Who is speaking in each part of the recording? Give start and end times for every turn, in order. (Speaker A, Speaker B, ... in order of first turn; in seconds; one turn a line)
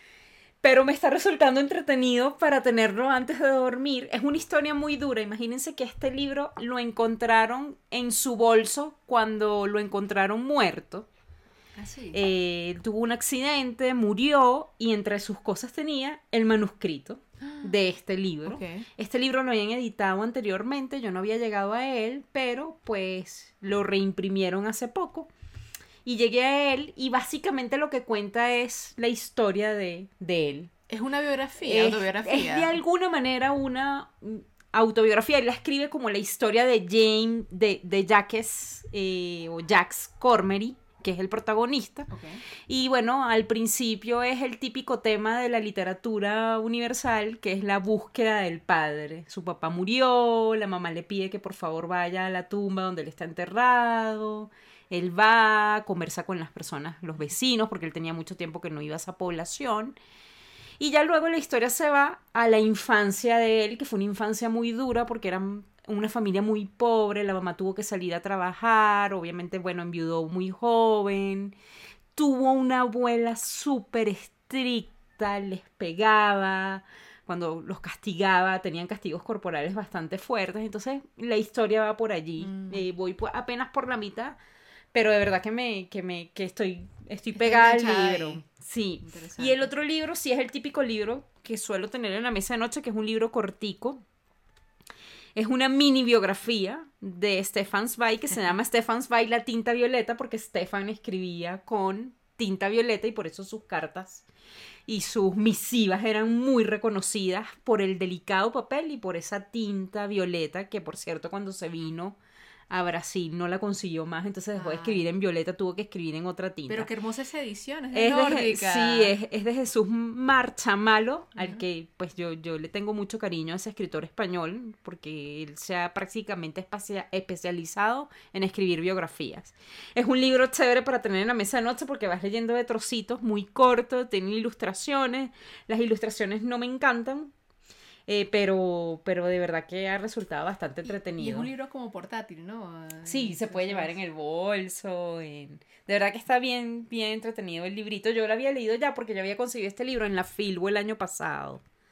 Speaker A: 0.6-11.1
Speaker B: 11.8-12.2
Speaker A: 12.1-25.3
Speaker B: 17.4-17.7
Speaker B: 18.5-18.9
Speaker A: 26.1-30.7
Speaker B: 30.9-32.8
Speaker A: 31.6-42.1
Speaker B: 42.1-42.4
Speaker A: 42.7-60.0
Speaker A: 60.8-71.6
Speaker A: 72.2-84.4
Speaker B: 82.4-82.9
Speaker A: 84.9-94.0
Speaker B: 87.4-88.5
Speaker B: 89.0-89.7
Speaker A: 95.4-104.2
Speaker A: 104.9-112.2
Speaker A: 112.7-116.9
Speaker B: 114.6-115.0
Speaker B: 116.7-119.1
Speaker A: 117.9-137.3
Speaker B: 121.4-121.6
Speaker A: 138.1-141.5
Speaker B: 140.8-143.9
Speaker A: 143.1-151.6